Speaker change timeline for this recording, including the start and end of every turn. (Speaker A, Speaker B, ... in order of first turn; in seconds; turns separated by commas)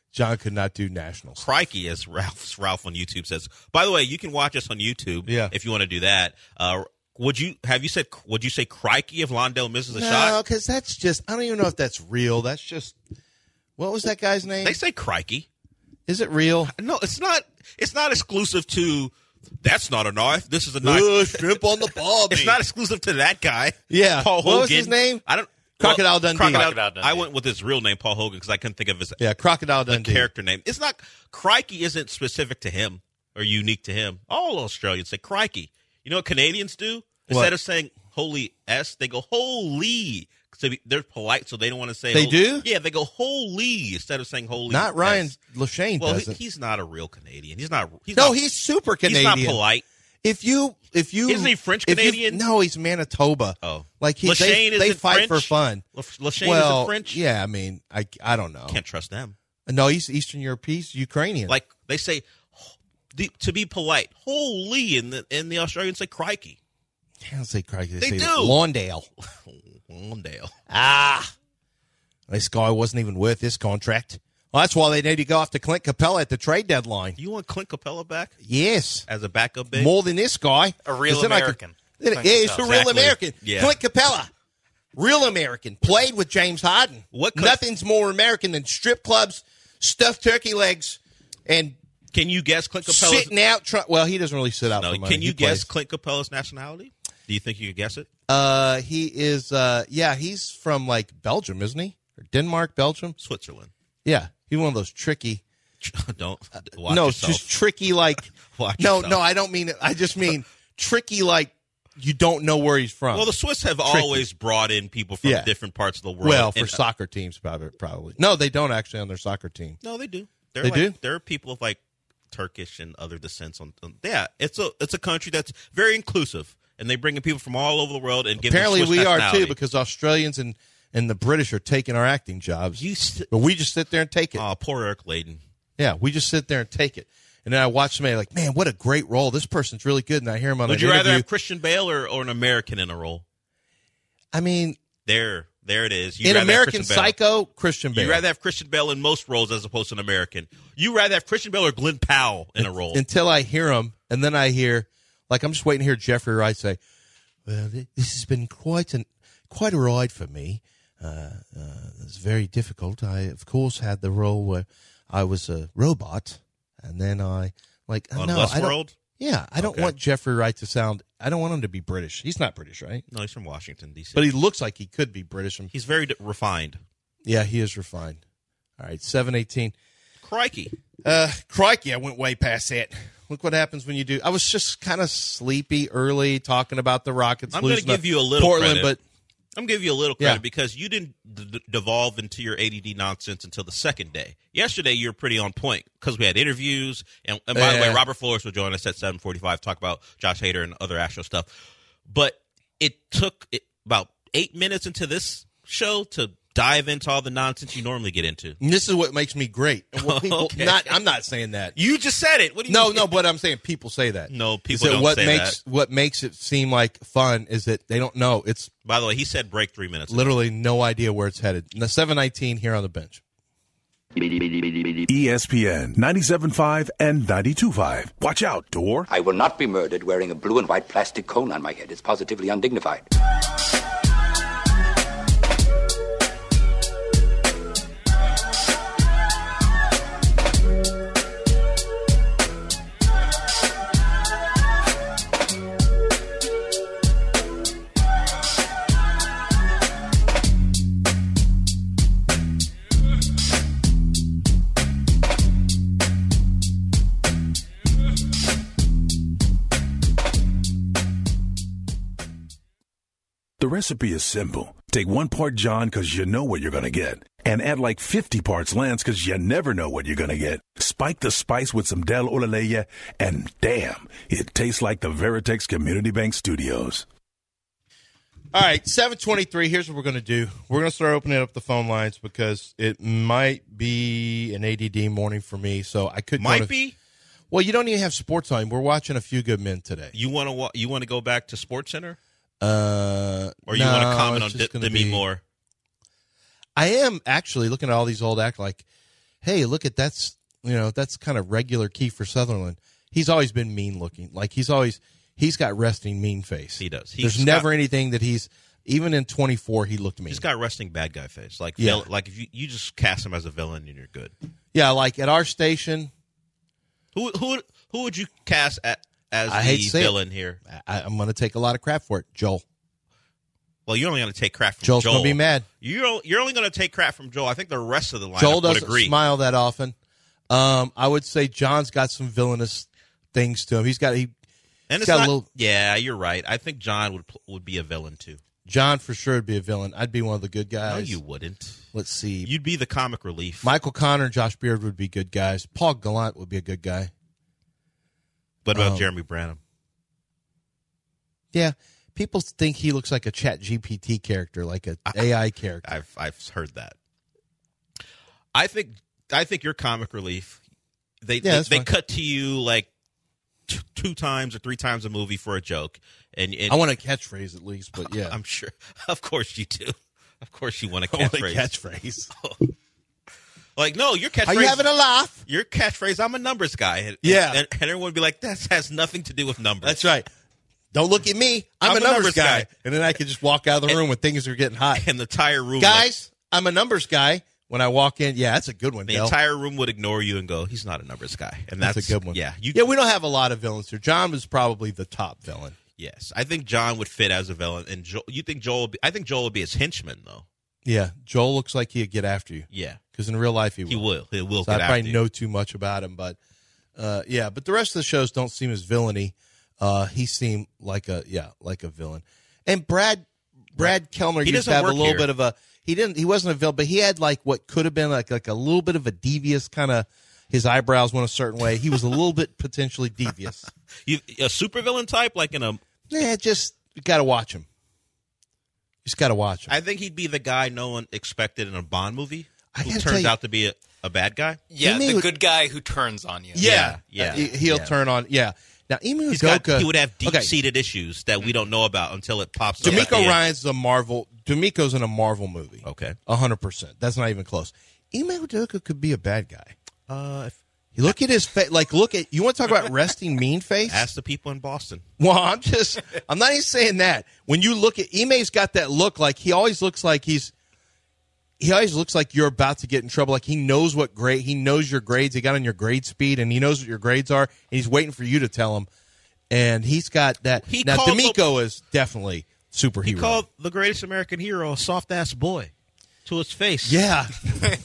Speaker A: 0.1-1.4, Speaker B: 1.4-10.4, Speaker A: 5.2-5.5, Speaker A: 9.9-12.9, Speaker A: 13.8-14.8, Speaker B: 14.6-15.5, Speaker A: 16.1-16.7, Speaker B: 16.7-21.6, Speaker A: 20.8-22.6, Speaker B: 22.3-29.2, Speaker A: 23.9-25.2, Speaker A: 25.8-26.8, Speaker C: 26.3-27.3, Speaker A: 29.2-30.3, Speaker B: 29.9-45.3, Speaker A: 37.3-37.5, Speaker A: 42.1-42.6, Speaker A: 44.7-46.4, Speaker B: 46.0-48.4, Speaker A: 48.1-49.6, Speaker B: 49.0-49.8, Speaker A: 50.2-55.8, Speaker B: 51.3-52.4, Speaker B: 53.6-57.2, Speaker A: 56.4-58.8, Speaker B: 58.7-59.3, Speaker A: 59.6-61.5, Speaker B: 61.5-66.6, Speaker A: 67.2-69.1, Speaker B: 68.0-68.6, Speaker B: 69.5-70.5, Speaker A: 70.7-71.3, Speaker A: 72.3-77.2, Speaker B: 77.2-78.3, Speaker A: 78.4-79.1, Speaker B: 79.1-79.9, Speaker A: 79.7-84.3, Speaker C: 80.8-83.1, Speaker B: 82.5-83.8, Speaker A: 84.9-91.8, Speaker B: 87.1-87.6, Speaker B: 92.1-93.3, Speaker A: 92.8-95.7, Speaker B: 94.8-98.1, Speaker A: 98.3-103.2, Speaker B: 103.2-103.7, Speaker A: 104.0-105.4, Speaker B: 105.8-107.4, Speaker A: 106.8-113.3, Speaker B: 108.5-109.2, Speaker B: 113.1-116.8, Speaker A: 113.8-114.2, Speaker A: 115.2-115.5, Speaker A: 116.2-119.8, Speaker B: 119.8-121.8, Speaker A: 120.6-120.9, Speaker B: 122.3-129.6, Speaker A: 128.4-134.4, Speaker B: 132.7-133.3, Speaker B: 134.3-135.4, Speaker A: 135.8-141.2, Speaker B: 140.6-143.2, Speaker A: 144.3-144.8, Speaker B: 145.0-147.1, Speaker A: 146.2-148.2, Speaker B: 147.9-153.0, Speaker A: 152.6-156.8, Speaker A: 157.4-173.0, Speaker B: 168.2-168.9, Speaker B: 169.6-169.9, Speaker B: 173.1-174.3, Speaker A: 174.1-175.7, Speaker B: 175.7-176.8, Speaker A: 177.2-178.2, Speaker A: 178.8-179.7, Speaker B: 180.2-180.8, Speaker A: 181.0-189.0, Speaker B: 187.5-188.9, Speaker B: 189.6-201.5, Speaker A: 197.5-198.0, Speaker B: 202.1-208.6, Speaker A: 208.6-211.7, Speaker B: 209.9-210.9, Speaker B: 211.7-213.2, Speaker A: 212.7-218.7, Speaker B: 214.3-215.6, Speaker B: 218.8-220.4, Speaker A: 220.1-223.2, Speaker D: 224.2-225.1, Speaker E: 225.1-229.1, Speaker D: 229.1-233.1, Speaker E: 263.6-277.1, Speaker A: 278.5-286.7, Speaker B: 286.4-286.9, Speaker A: 287.5-290.1, Speaker B: 290.1-292.2, Speaker A: 292.6-295.2, Speaker B: 293.7-295.4, Speaker A: 296.8-298.8, Speaker A: 299.4-310.4, Speaker B: 306.8-307.7, Speaker B: 310.3-314.3, Speaker A: 311.8-312.1, Speaker A: 314.7-316.1, Speaker B: 317.1-320.6, Speaker A: 319.5-322.6, Speaker B: 323.9-329.1, Speaker A: 324.8-325.7, Speaker A: 328.4-329.9, Speaker A: 330.5-334.3, Speaker B: 334.9-338.4, Speaker A: 335.0-335.4, Speaker A: 338.6-341.2, Speaker B: 340.9-341.8, Speaker A: 341.9-342.5, Speaker B: 342.4-343.7, Speaker A: 343.6-347.1, Speaker B: 348.6-349.6, Speaker A: 348.7-349.1, Speaker A: 351.5-355.9, Speaker B: 355.1-355.3, Speaker B: 355.8-356.9, Speaker B: 358.5-360.6, Speaker B: 361.2-362.9, Speaker A: 361.4-361.9, Speaker B: 363.7-366.8, Speaker A: 366.7-368.4, Speaker B: 368.1-371.7, Speaker A: 371.1-372.3, Speaker B: 372.3-372.6, Speaker B: 373.8-374.8, Speaker A: 374.4-375.4, Speaker B: 375.4-380.0, Speaker A: 377.2-377.6, Speaker A: 379.8-380.3, Speaker A: 380.9-385.0, Speaker B: 381.8-382.7, Speaker B: 384.9-386.1, Speaker A: 385.8-389.3, Speaker B: 389.1-392.8, Speaker A: 391.8-395.8, Speaker B: 396.0-400.4, Speaker A: 400.8-404.1, Speaker B: 402.7-403.0, Speaker B: 403.9-405.2, Speaker A: 404.6-406.4, Speaker A: 406.9-423.7, Speaker B: 413.8-415.2, Speaker B: 424.1-425.8, Speaker A: 426.1-427.7, Speaker A: 429.0-429.7, Speaker B: 429.7-434.6, Speaker A: 432.7-433.3, Speaker C: 434.7-437.5, Speaker A: 434.8-435.3, Speaker A: 436.5-440.5, Speaker B: 436.6-437.9, Speaker B: 439.3-443.4, Speaker A: 442.8-449.7, Speaker C: 442.8-443.1, Speaker B: 445.8-446.2, Speaker B: 450.1-450.6, Speaker A: 450.9-454.1, Speaker B: 453.9-455.0, Speaker A: 455.2-460.5, Speaker A: 461.6-468.9, Speaker A: 469.5-473.4, Speaker B: 470.6-471.4, Speaker B: 473.0-475.7, Speaker B: 476.2-477.0, Speaker A: 476.8-477.4